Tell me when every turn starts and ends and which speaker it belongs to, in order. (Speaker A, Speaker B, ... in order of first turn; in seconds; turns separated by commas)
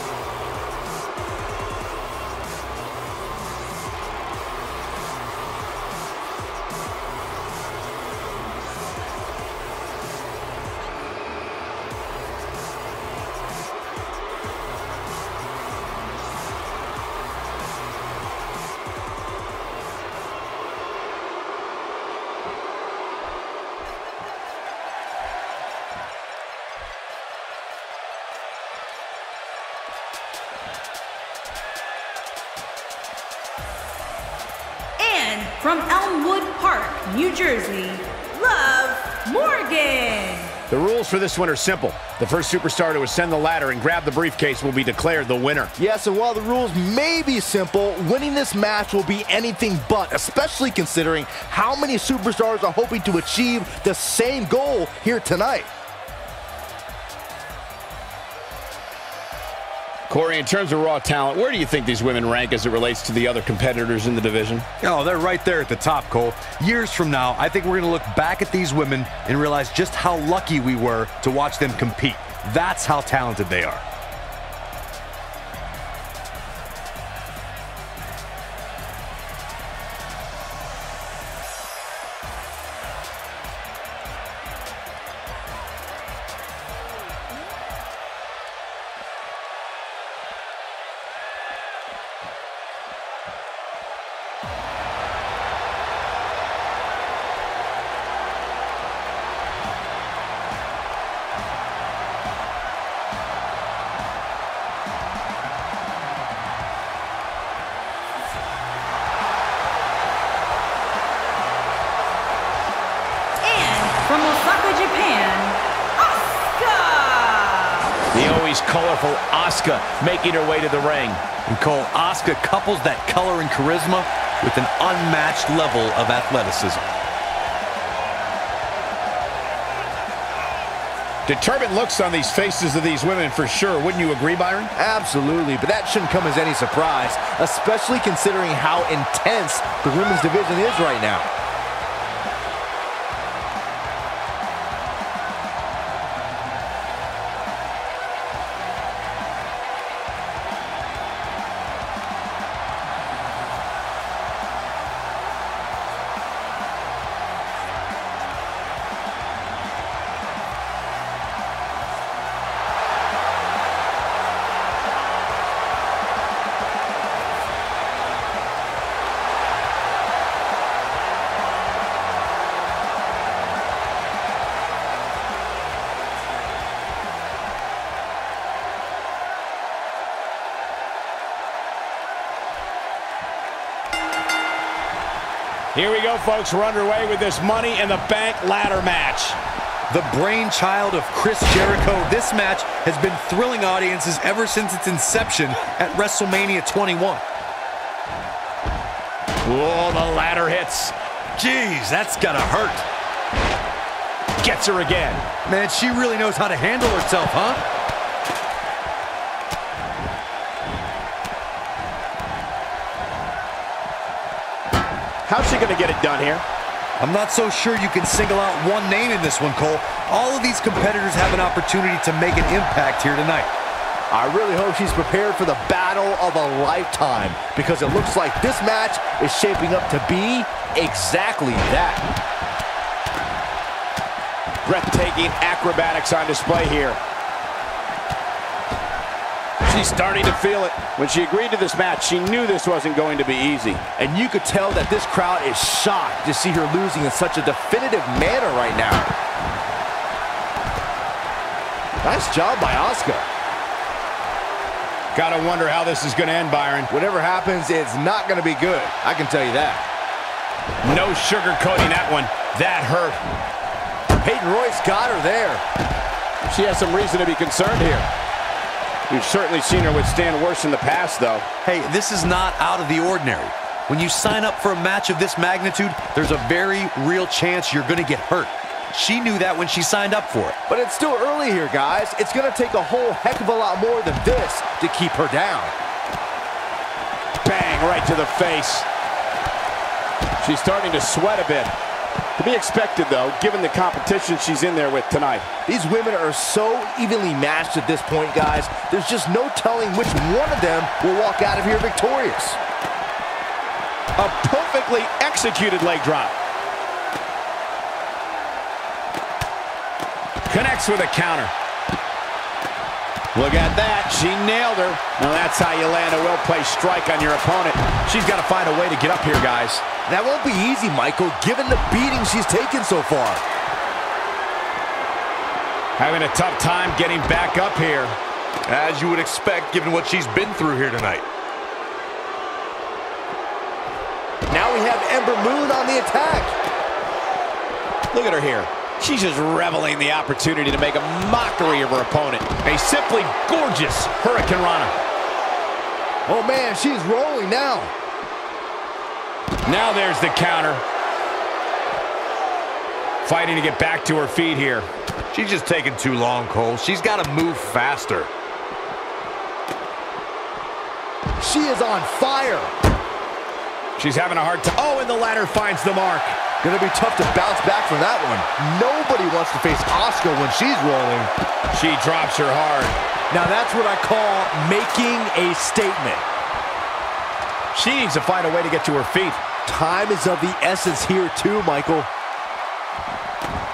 Speaker A: 35.0-40.5, Speaker B: 40.7-45.7, Speaker C: 45.8-55.7, Speaker B: 60.1-64.6, Speaker D: 64.8-73.8, Speaker A: 113.4-118.0, Speaker B: 118.1-121.2, Speaker D: 121.5-126.8, Speaker B: 131.2-134.7, Speaker C: 134.8-141.3, Speaker B: 185.7-189.4, Speaker D: 189.9-197.2, Speaker B: 199.4-200.9, Speaker D: 201.3-202.8, Speaker B: 204.4-205.2, Speaker D: 205.4-207.6, Speaker B: 215.2-216.4, Speaker D: 217.0-223.5, Speaker C: 224.1-232.1, Speaker B: 234.6-237.0, Speaker B: 239.7-243.8, Speaker C: 244.0-249.1, Speaker C: 252.0-253.2, Speaker B: 255.1-256.9, Speaker C: 256.9-259.8, Speaker B: 260.8-263.2, Speaker C: 264.2-265.6, Speaker B: 266.4-268.1, Speaker B: 269.1-271.4, Speaker D: 271.6-280.6, Speaker C: 280.7-285.7, Speaker B: 287.4-288.9, Speaker B: 290.4-291.7, Speaker B: 292.4-295.5, Speaker C: 295.6-302.6, Speaker B: 304.1-306.3, Speaker B: 310.5-311.5, Speaker B: 313.3-319.9, Speaker C: 320.1-323.4, Speaker B: 326.0-328.2, Speaker D: 328.6-331.2, Speaker C: 334.5-336.6, Speaker B: 338.1-344.9, Speaker C: 346.3-347.9, Speaker B: 349.6-350.8, Speaker B: 353.2-354.9, Speaker D: 355.3-358.3, Speaker C: 361.4-362.7, Speaker B: 364.0-366.4, Speaker C: 366.6-371.3, Speaker B: 371.7-372.9, Speaker C: 373.3-376.2, Speaker B: 377.7-379.4, Speaker C: 379.6-382.1